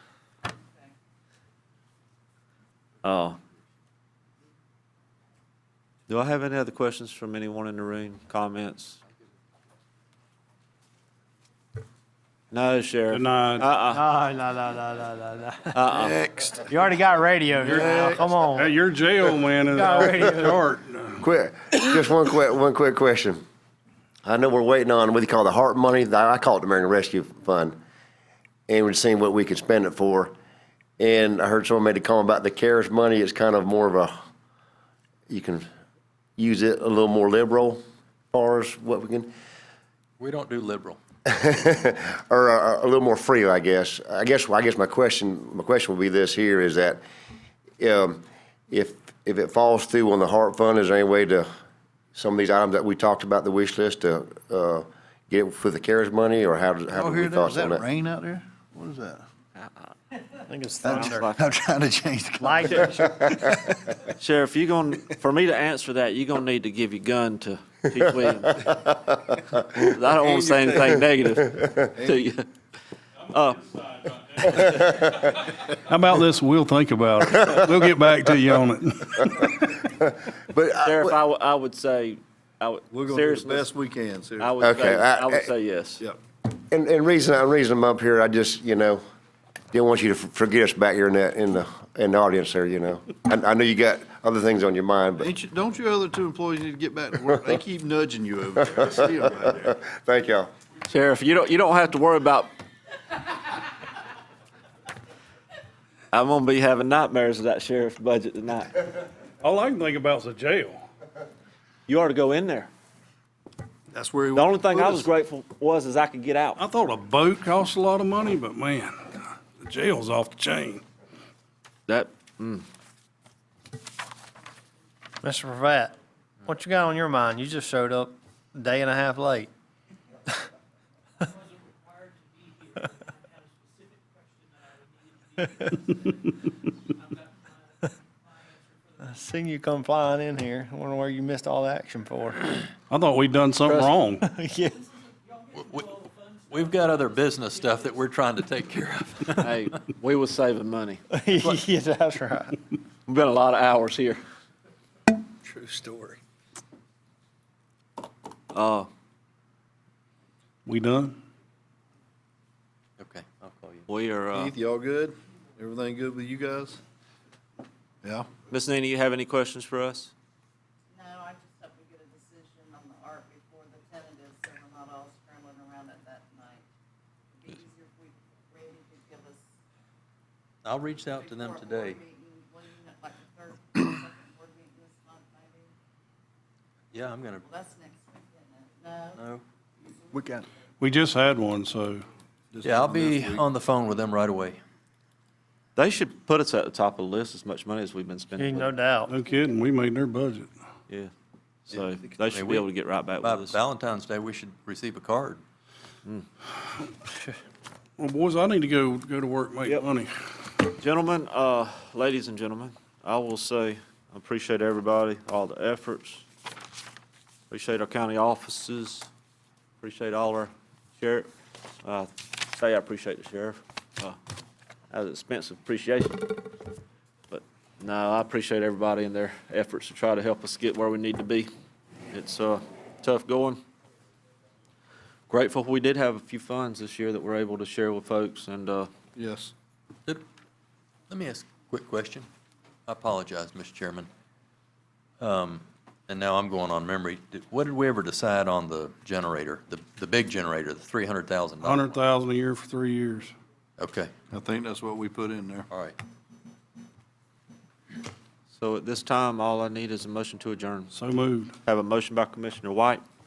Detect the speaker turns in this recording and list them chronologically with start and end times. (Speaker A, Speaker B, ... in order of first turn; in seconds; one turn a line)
Speaker A: 3.0-3.4
Speaker A: 6.1-9.0
Speaker A: 12.5-14.0
Speaker B: 13.1-13.7
Speaker C: 13.9-15.8
Speaker A: 15.7-16.2
Speaker D: 16.0-16.6
Speaker C: 16.6-18.8
Speaker B: 17.6-21.2
Speaker D: 17.7-18.2
Speaker C: 19.7-20.8
Speaker E: 21.2-23.4
Speaker E: 24.2-27.8
Speaker E: 28.7-30.3
Speaker E: 31.0-34.1
Speaker E: 35.3-35.6
Speaker E: 36.4-37.8
Speaker E: 38.3-39.3
Speaker F: 40.2-41.0
Speaker E: 41.2-47.0
Speaker E: 47.8-51.5
Speaker E: 52.1-57.8
Speaker D: 56.9-59.2
Speaker A: 59.6-59.9
Speaker C: 60.5-61.3
Speaker A: 60.8-61.4
Speaker D: 60.8-62.8
Speaker C: 62.4-63.8
Speaker A: 64.1-68.9
Speaker A: 69.7-72.5
Speaker D: 70.2-70.8
Speaker D: 71.9-72.2
Speaker A: 73.3-73.7
Speaker E: 74.5-75.2
Speaker B: 75.0-79.6
Speaker E: 79.3-81.2
Speaker A: 80.8-83.7
Speaker D: 82.9-84.5
Speaker A: 84.4-86.0
Speaker E: 84.6-85.5
Speaker E: 86.7-89.0
Speaker E: 89.7-95.3
Speaker D: 95.2-99.6
Speaker E: 98.8-100.5
Speaker A: 100.9-102.5
Speaker A: 106.1-108.9
Speaker B: 109.4-110.8
Speaker A: 111.9-112.7
Speaker D: 113.9-115.0
Speaker A: 114.3-116.6
Speaker B: 116.6-119.0
Speaker B: 119.6-120.8
Speaker A: 121.9-122.6
Speaker C: 125.2-125.9
Speaker C: 126.4-129.5
Speaker C: 139.0-142.6
Speaker B: 142.9-144.2
Speaker A: 143.6-143.9
Speaker C: 144.2-144.8
Speaker F: 145.6-149.7
Speaker A: 149.4-151.0
Speaker C: 151.1-152.6
Speaker A: 153.1-154.2
Speaker D: 155.4-156.2
Speaker A: 158.5-158.9
Speaker B: 160.7-161.2
Speaker F: 163.0-163.8
Speaker A: 163.9-164.5
Speaker D: 164.3-166.8
Speaker D: 168.0-168.3
Speaker A: 168.5-170.1
Speaker G: 170.9-176.6
Speaker G: 177.4-179.4
Speaker F: 180.6-182.0
Speaker G: 181.4-185.7
Speaker F: 186.9-187.5
Speaker G: 187.5-189.2
Speaker F: 189.1-189.4
Speaker D: 190.1-190.4
Speaker B: 190.8-192.1
Speaker D: 192.5-193.4
Speaker F: 192.6-194.6
Speaker A: 195.8-198.7
Speaker C: 198.4-199.2
Speaker B: 199.1-200.5
Speaker A: 201.7-203.5
Speaker F: 202.2-202.7
Speaker F: 203.2-205.4
Speaker B: 208.0-210.1
Speaker A: 210.8-216.2
Speaker A: 217.5-219.1
Speaker A: 219.8-221.3
Speaker A: 221.8-224.2
Speaker A: 224.9-226.3
Speaker A: 227.3-231.5
Speaker A: 232.1-233.6
Speaker A: 235.3-238.9
Speaker D: 239.2-239.5
Speaker F: 241.1-242.3
Speaker F: 242.9-244.1
Speaker F: 245.2-251.9
Speaker B: 251.6-253.3
Speaker F: 253.8-254.1
Speaker D: 254.3-255.7
Speaker F: 255.7-256.0
Speaker A: 258.5-260.9
Speaker B: 260.9-261.5
Speaker A: 261.6-263.0